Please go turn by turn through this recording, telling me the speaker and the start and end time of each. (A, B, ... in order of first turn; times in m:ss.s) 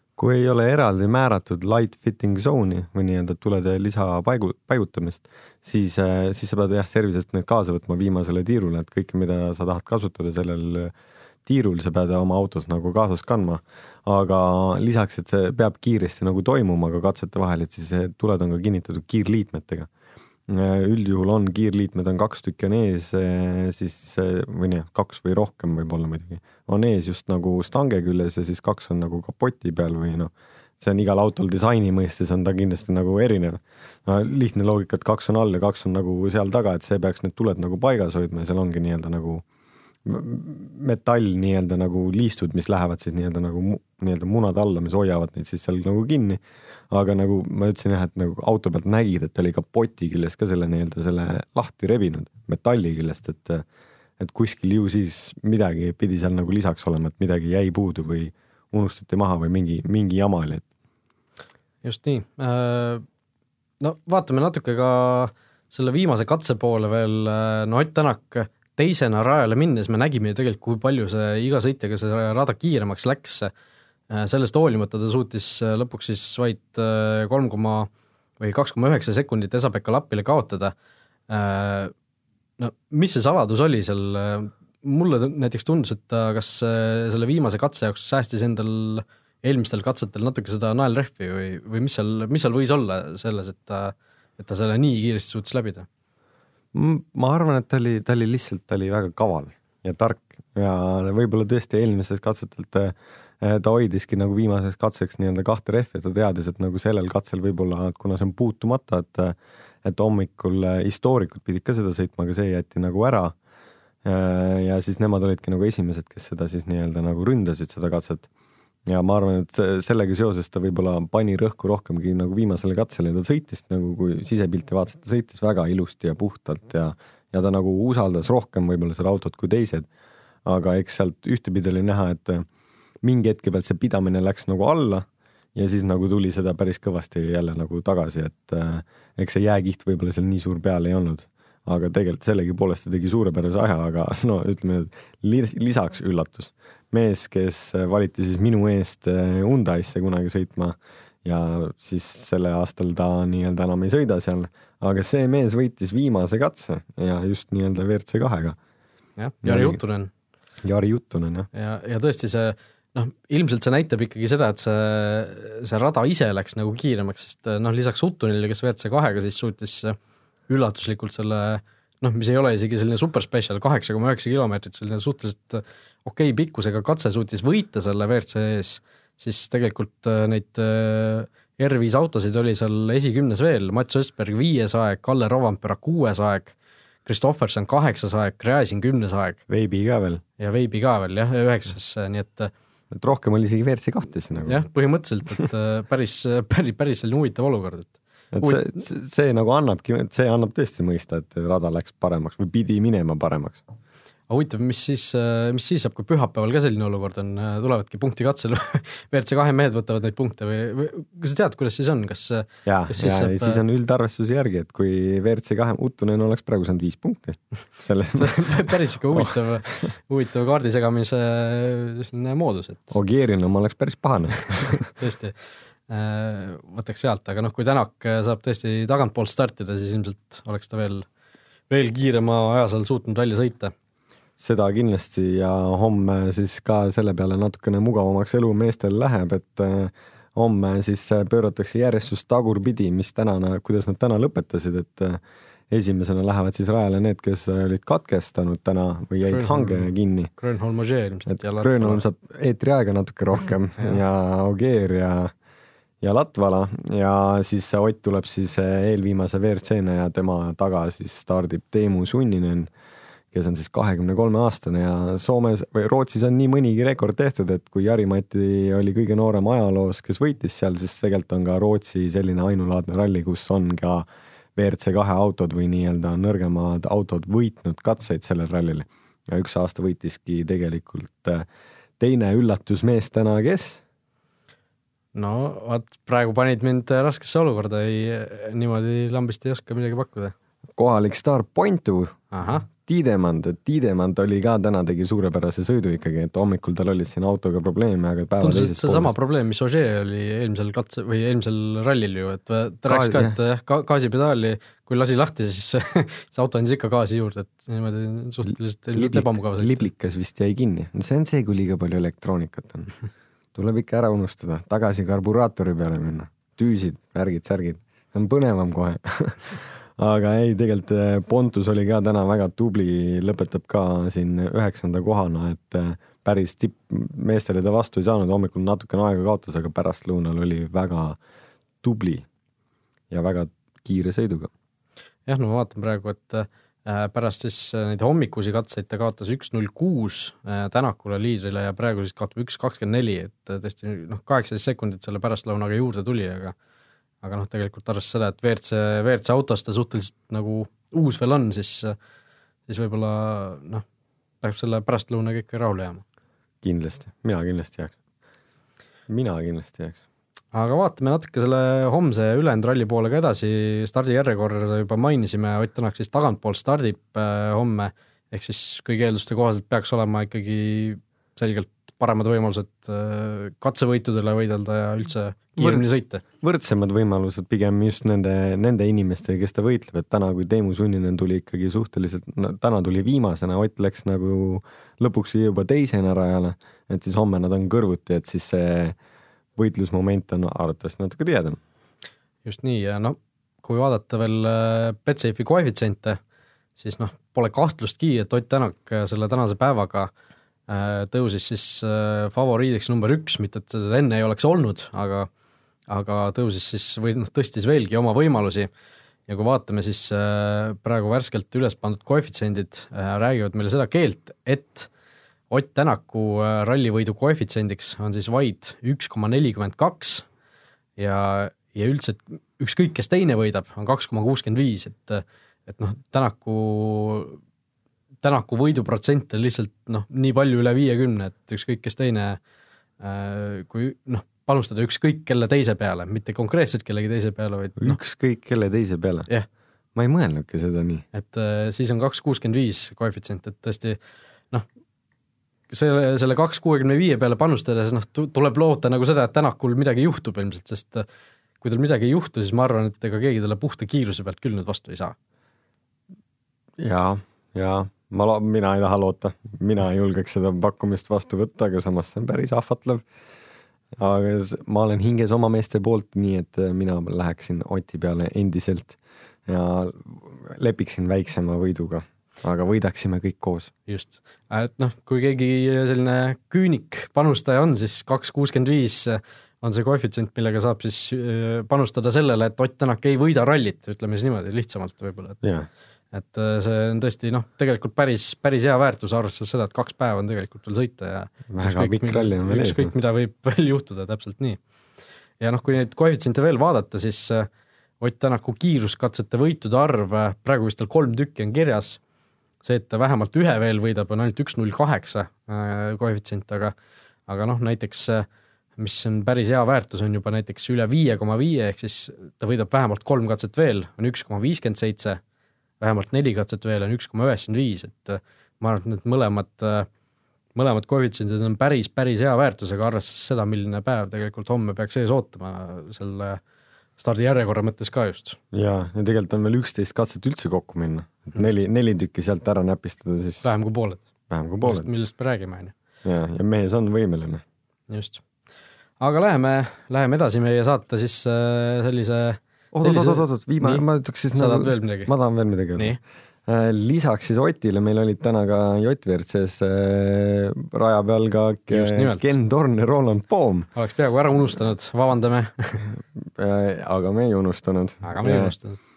0:00.2-0:10.9 A
0:11.4-0:19.9 A
0:20.5-0:39.4 A
0:40.0-0:53.6 A
0:54.2-1:00.6 A
1:01.8-1:03.0 B
1:03.8-1:13.5 B
1:14.1-1:20.7 B
1:21.3-1:21.9 B
1:22.6-1:35.9 B
1:36.7-1:53.3 A
1:54.0-1:58.3 A
1:58.9-2:09.9 A
2:10.4-2:12.5 A
2:13.0-2:38.6 A
2:39.2-2:40.1 B
2:39.4-2:39.8 A
2:40.6-2:41.5 A
2:41.5-2:50.0 B
2:50.5-3:09.4 B
3:09.5-3:10.2 A
3:10.4-3:12.5 B
3:12.9-3:14.6 A
3:14.4-3:18.8 B
3:18.3-3:23.6 A
3:24.3-3:33.6 B
3:32.6-3:39.9 A
3:38.2-3:42.9 B
3:42.9-3:44.9 A
3:44.8-3:45.4 B
3:45.9-3:51.1 B
3:51.7-3:53.7 B
3:54.4-4:10.3 A
4:09.2-4:12.0 B
4:11.6-4:15.3 A
4:16.0-4:22.7 A
4:23.3-4:41.4 A
4:42.0-4:43.8 A
4:45.1-4:50.3 B
4:50.8-4:59.1 A
4:52.3-4:52.6 B
4:58.4-5:09.8 B
5:02.9-5:03.4 A
5:08.4-5:12.9 A
5:13.5-5:31.2 A
5:31.8-5:32.2 A
5:33.1-5:34.5 A
5:35.2-5:46.5 B
5:47.2-5:51.9 B
5:52.7-5:53.8 B
5:54.4-5:56.0 B
5:56.6-5:57.9 A
5:59.1-6:00.0 A
6:00.5-6:16.2 B
6:15.6-6:15.9 A
6:16.4-6:29.0 A
6:29.6-6:31.6 A
6:32.4-6:36.2 B
6:36.8-6:40.1 B
6:40.7-6:45.3 B
6:45.9-6:48.7 B
6:49.3-6:54.9 B
6:55.5-7:00.2 B
7:01.0-7:07.4 B
7:08.2-7:12.4 B
7:13.0-7:18.0 B
7:17.8-7:19.3 A
7:19.9-7:21.0 A
7:21.1-7:24.0 B
7:25.7-7:31.0 B
7:31.6-7:35.2 B
7:36.8-7:43.0 A
7:44.0-7:53.7 A
7:53.9-8:05.4 B
8:05.4-8:05.7 A
8:06.1-8:14.6 B
8:11.5-8:12.9 A
8:15.4-8:17.5 B
8:18.0-8:22.0 B
8:22.6-8:26.7 B
8:27.3-8:28.2 B
8:28.8-8:35.2 B
8:35.8-8:39.9 B
8:40.5-8:46.4 B
8:47.0-8:48.4 B
8:48.5-8:53.4 A
8:53.4-8:54.0 B
8:54.3-8:54.9 A
8:54.6-8:55.7 B
8:56.0-8:57.4 A
8:57.9-8:58.2 B
8:59.0-9:05.1 B
9:02.7-9:13.7 A
9:11.7-9:12.3 B
9:13.7-9:15.8 B
9:15.9-9:18.5 A
9:18.0-9:18.8 B